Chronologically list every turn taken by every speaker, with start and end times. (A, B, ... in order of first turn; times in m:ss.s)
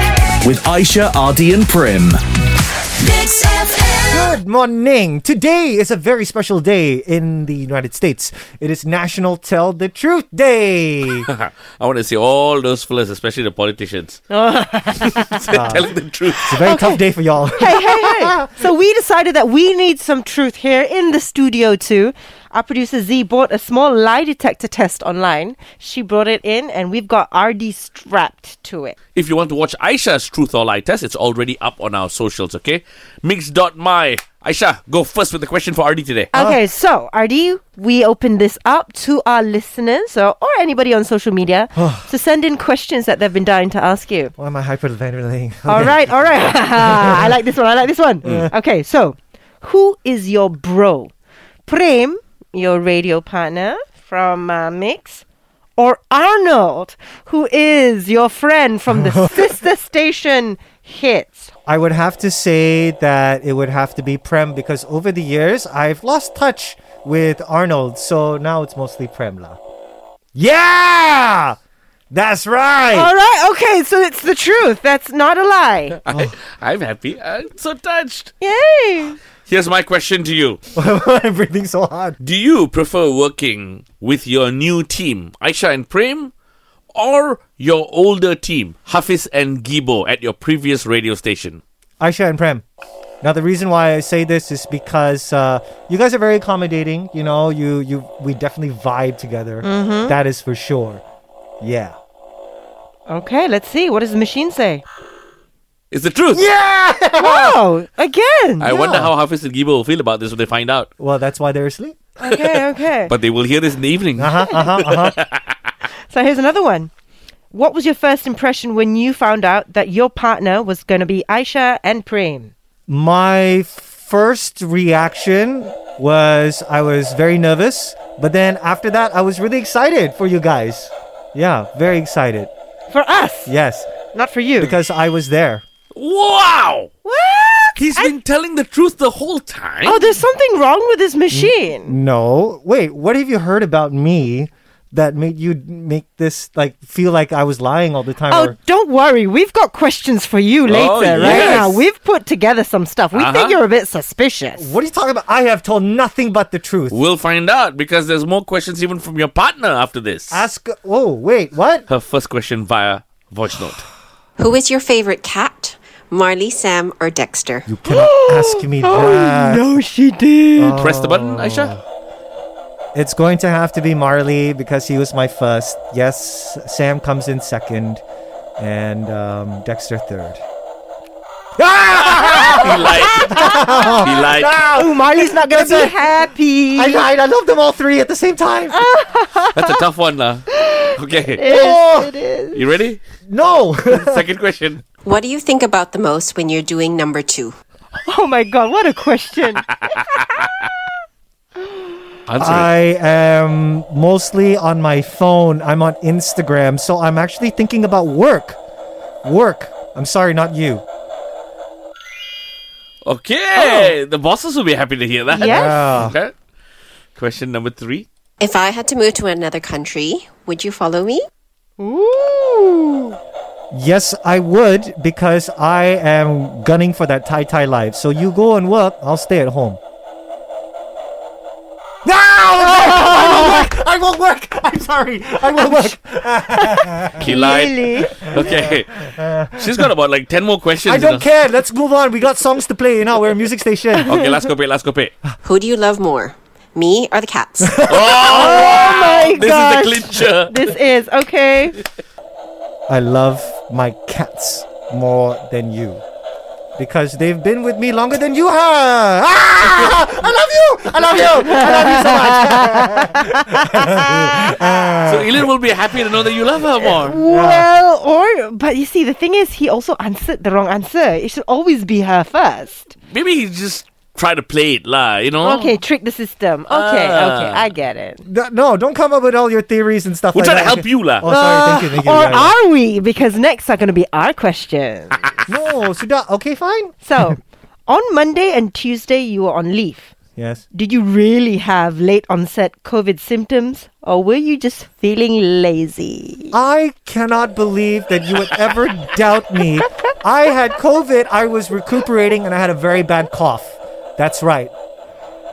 0:00.4-0:02.2 A
0:03.1-0:03.8 A
0:04.1-0:11.3 B
0:11.3-0:14.2 C
0:14.3-0:15.5 D
0:15.1-0:16.5 C
0:15.5-0:18.5 B
0:16.6-0:17.0 D
0:17.6-0:29.0 D
0:29.2-0:36.3 C
0:36.3-0:44.3 D
0:36.3-0:36.6 B
0:41.8-0:42.1 B
0:44.4-0:47.4 B
0:45.7-0:51.1 D
0:48.2-0:48.5 B
0:51.7-0:55.2 D
0:55.8-1:01.5 D
0:58.9-0:59.6 B
1:01.7-1:09.6 B
1:10.4-1:11.6 B
1:12.1-1:13.1 B
1:12.9-1:16.0 D
1:16.0-1:18.3 C
1:16.1-1:16.4 B
1:18.4-1:19.2 D
1:19.5-1:20.6 C
1:20.8-1:22.2 B
1:22.2-1:26.3 C
1:26.9-1:31.6 C
1:32.0-1:32.6 B
1:33.2-1:41.0 B
1:39.6-1:40.2 D
1:41.6-1:42.0 B
1:43.1-1:44.8 D
1:45.9-1:46.4 C
1:46.3-1:47.6 B
1:47.2-1:48.7 D
1:48.6-1:50.9 C
1:48.6-1:49.1 B
1:51.0-1:52.0 B
1:52.2-1:53.1 D
1:53.1-1:55.5 C
1:54.2-1:55.2 B
1:56.1-1:56.9 D
1:57.5-2:02.5 D
2:02.9-2:12.5 B
2:12.9-2:13.5 D
2:13.5-2:13.9 B
2:14.1-2:14.8 D
2:14.6-2:15.6 B
2:15.9-2:16.9 C
2:17.0-2:18.1 D
2:17.8-2:20.0 C
2:19.8-2:21.9 D
2:21.3-2:28.6 B
2:28.3-2:34.7 D
2:30.7-2:31.8 C
2:31.2-2:31.8 B
2:33.1-2:33.6 C
2:34.6-2:37.0 B
2:36.9-2:40.4 C
2:40.3-2:41.9 B
2:41.9-2:43.9 C
2:44.4-2:47.7 E
2:47.7-2:49.7 B
2:47.9-2:50.8 D
2:50.6-2:51.8 B
2:50.8-2:51.8 C
2:53.0-2:58.0 B
2:58.6-3:00.4 B
3:01.6-3:06.0 B
3:02.0-3:04.6 C
3:03.2-3:04.1 D
3:04.7-3:07.1 D
3:06.8-3:08.8 B
3:08.7-3:09.8 D
3:09.5-3:11.5 C
3:10.5-3:12.6 D
3:11.5-3:12.1 B
3:12.5-3:13.0 C
3:13.3-3:14.2 B
3:13.9-3:14.8 C
3:15.0-3:17.6 E
3:18.0-3:19.8 D
3:22.3-3:22.7 C
3:22.4-3:28.6 B
3:29.2-3:30.8 B
3:33.0-3:36.3 C
3:33.6-3:33.9 B
3:35.3-3:35.9 D
3:35.4-3:36.2 B
3:37.2-3:38.1 C
3:38.4-3:41.3 E
3:41.8-3:43.2 D
3:43.7-3:49.8 B
3:52.0-3:57.4 B
3:52.7-3:53.7 D
3:55.5-3:56.0 D
3:56.5-3:58.2 D
3:57.2-4:01.3 C
3:58.2-3:59.9 B
4:00.8-4:04.1 B
4:04.0-4:04.3 D
4:04.1-4:05.2 C
4:05.4-4:07.8 E
4:07.6-4:08.8 B
4:07.9-4:10.7 C
4:08.2-4:11.8 D
4:12.9-4:16.0 B
4:16.8-4:25.5 B
4:21.2-4:24.5 D
4:25.0-4:27.2 C
4:27.0-4:32.9 D
4:27.1-4:27.7 B
4:33.1-4:35.8 C
4:35.4-4:38.2 D
4:36.7-4:37.7 C
4:38.2-4:42.6 B
4:40.3-4:41.3 C
4:41.3-4:45.3 D
4:45.5-4:47.0 B
4:47.0-4:50.1 D
4:50.4-4:50.6 B
4:50.7-4:56.6 D
4:56.5-5:04.7 B